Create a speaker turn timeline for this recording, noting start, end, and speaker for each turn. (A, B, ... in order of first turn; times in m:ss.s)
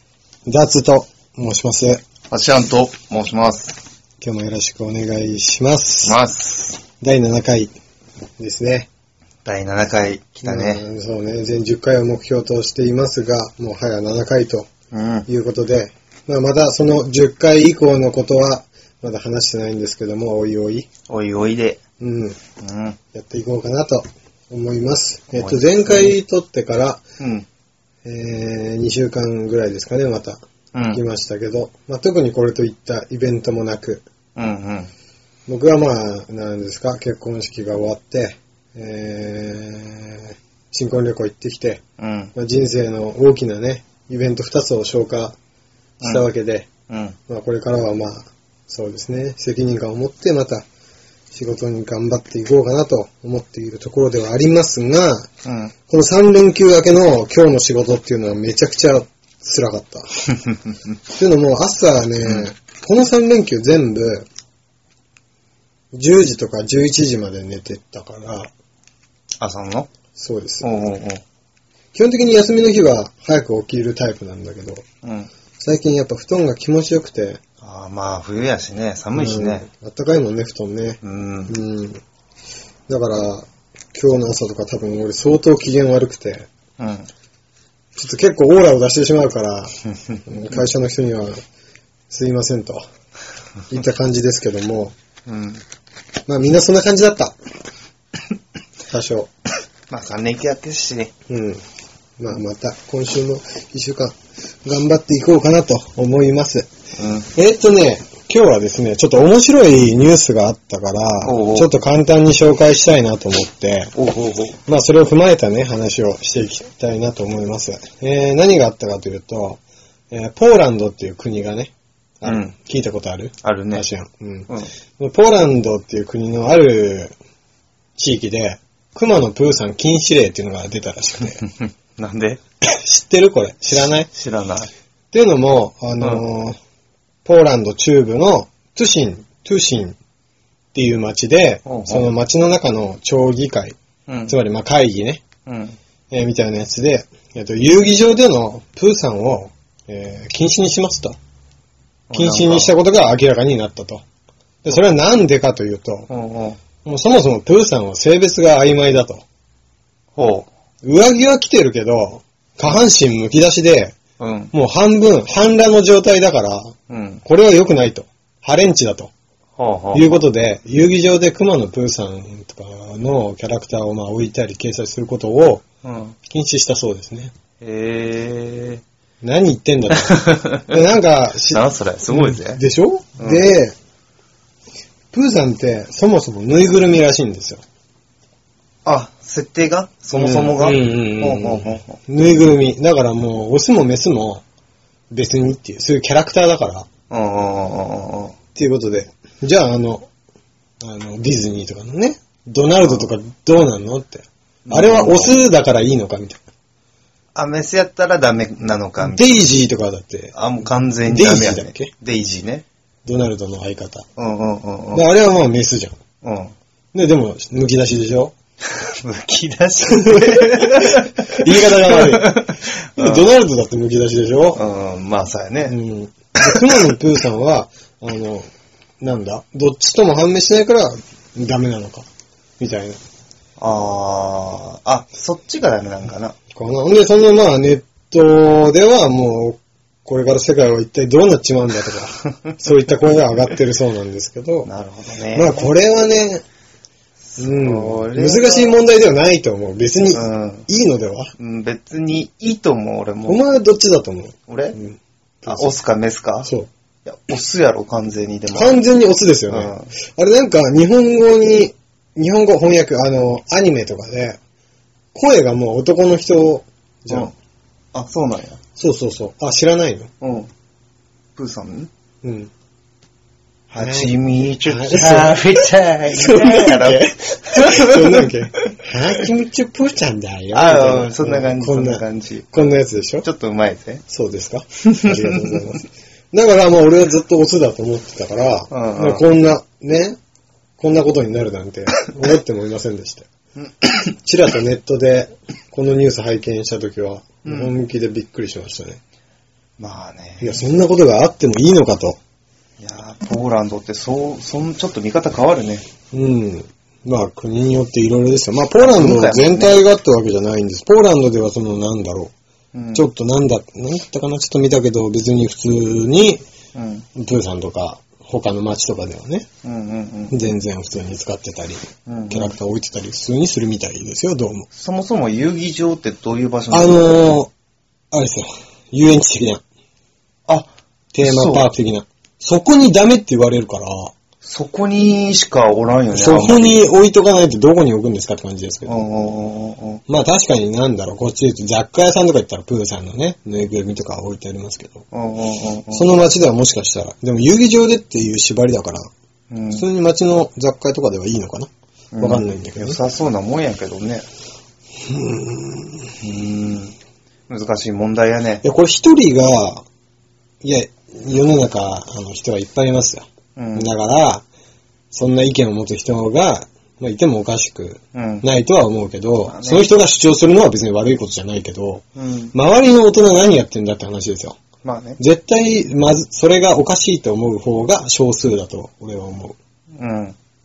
0:00.4-0:02.0 A
0:02.3-0:03.8 B
0:04.2-0:06.2 A
0:06.0-0:06.8 B
0:07.0-0:07.7 A
0:08.4-0:08.9 A
0:09.4-0:10.8 B
0:10.4-0:14.7 A
0:14.9-0:15.3 B
0:15.3-0:20.9 A
0:21.1-0:21.8 B
0:22.0-0:22.4 A
0:22.6-0:23.0 B
0:23.1-0:27.0 A
0:25.3-0:26.2 B
0:27.2-0:27.4 B
0:28.0-0:30.4 A
0:30.7-0:31.0 B
0:30.9-0:34.0 A
0:34.4-0:34.9 B
0:35.5-0:41.8 A
0:42.0-0:42.3 B
0:42.3-0:45.4 A
0:46.0-0:46.3 B
0:46.0-0:46.7 A
0:46.9-0:47.2 B
0:47.3-0:50.6 A
0:51.3-0:55.3 A
0:55.4-0:55.7 B
0:55.9-1:00.2 A
1:01.1-1:04.3 A
1:02.2-1:02.5 B
1:05.9-1:08.5 A
1:09.4-1:09.9 B
1:10.1-1:10.7 A
1:10.6-1:11.2 B
1:11.9-1:14.8 A
1:15.0-1:15.3 B
1:15.6-1:17.4 A
1:17.6-1:19.6 B
1:19.1-1:22.0 A
1:21.0-1:21.6 B
1:22.9-1:26.5 A
1:26.8-1:27.1 B
1:27.9-1:31.4 A
1:32.1-1:32.8 A
1:33.7-1:34.9 A
1:35.2-1:35.6 B
1:36.3-1:37.3 A
1:38.9-1:39.3 A
1:39.9-1:41.1 B
1:41.3-1:41.6 A
1:42.2-1:46.7 A
1:47.0-1:47.3 B
1:47.3-1:53.9 A
1:51.2-1:51.7 B
1:53.9-1:54.6 B
1:54.6-2:07.1 A
2:02.2-2:02.5 B
2:03.4-2:03.9 B
2:08.0-2:11.4 A
2:11.4-2:12.4 B
2:12.6-2:14.1 A
2:14.1-2:14.7 B
2:15.1-2:16.6 A
2:17.2-2:20.0 A
2:20.7-2:23.8 A
2:21.6-2:22.1 B
2:24.1-2:24.4 B
2:24.3-2:25.2 A
2:25.4-2:25.8 B
2:26.1-2:31.2 A
2:32.1-2:32.7 B
2:32.1-2:34.0 A
2:34.6-2:36.1 A
2:36.1-2:36.6 B
2:36.8-2:39.2 A
2:40.1-2:40.5 B
2:40.8-2:44.0 A
2:44.2-2:44.5 B
2:44.5-2:49.1 A
2:46.9-2:47.2 B
2:49.6-2:50.2 B
2:49.9-2:55.6 A
2:55.8-2:56.1 B
2:56.2-2:57.3 A
2:57.6-2:58.8 B
2:59.2-3:03.7 A
2:59.9-3:00.8 B
3:01.5-3:02.6 B
3:03.2-3:03.5 B
3:05.1-3:07.6 A
3:08.8-3:12.0 B
3:10.1-3:14.4 A
3:15.1-3:16.9 A
3:17.1-3:18.4 B
3:18.5-3:20.1 A
3:20.8-3:26.4 A
3:22.8-3:23.1 B
3:24.6-3:25.4 B
3:27.3-3:29.5 B
3:29.0-3:30.3 A
3:30.3-3:32.6 B
3:31.0-3:31.9 A
3:33.0-3:34.0 A
3:34.2-3:35.0 B
3:34.9-3:36.0 A
3:36.2-3:36.5 B
3:36.9-3:38.3 A
3:38.7-3:43.3 B
3:39.9-3:44.6 A
3:44.5-3:45.8 B
3:45.7-3:48.5 A
3:46.4-3:46.9 B
3:49.0-3:52.1 A
3:52.6-3:53.0 A
3:53.6-3:56.4 B
3:56.5-4:04.7 A
4:04.6-4:05.7 B
4:05.3-4:06.4 A
4:07.3-4:08.8 B
4:07.4-4:11.3 A
4:10.1-4:10.7 B
4:11.4-4:13.4 B
4:13.2-4:15.7 A
4:14.5-4:14.8 B
4:15.4-4:16.5 B
4:17.0-4:18.8 B
4:18.5-4:24.4 A
4:19.5-4:19.9 B
4:25.1-4:27.3 A
4:27.9-4:28.6 B
4:28.8-4:30.1 A
4:30.2-4:30.5 B
4:31.4-4:31.9 B
4:32.2-4:32.5 A
4:33.7-4:39.2 B
4:33.8-4:43.3 A
4:40.5-4:44.0 B
4:44.1-4:50.2 A
4:44.8-4:45.6 B
4:48.7-4:49.2 B
4:50.8-4:53.3 A
4:54.0-4:59.0 A
4:57.4-4:57.8 B
4:59.8-5:00.6 B
5:00.4-5:02.2 A
5:02.8-5:05.8 B
5:06.1-5:12.3 A
5:08.8-5:09.8 B
5:12.7-5:13.0 B
5:12.9-5:16.4 A
5:16.7-5:17.1 B
5:17.1-5:19.5 A
5:19.6-5:20.4 B
5:20.3-5:24.7 A
5:22.0-5:22.6 B
5:24.7-5:27.1 B
5:26.7-5:27.5 A
5:28.1-5:29.6 A
5:30.5-5:31.7 B
5:31.1-5:34.1 A
5:34.4-5:36.9 B
5:36.1-5:39.0 A
5:38.8-5:40.0 B
5:40.1-5:45.0 A
5:45.1-5:46.1 B
5:45.9-5:49.1 A
5:49.5-5:49.8 B
5:49.7-5:51.7 A
5:52.1-5:54.2 B
5:52.2-5:53.0 A
5:55.0-5:56.1 A
5:56.2-5:57.0 B
5:57.5-5:58.6 B
5:58.6-5:59.8 A
6:00.6-6:04.4 A
6:03.6-6:03.9 B
6:05.1-6:14.6 A
6:08.1-6:08.4 B
6:09.4-6:10.0 B
6:12.2-6:12.5 B
6:14.8-6:15.2 B
6:15.2-6:19.6 A
6:19.9-6:20.4 B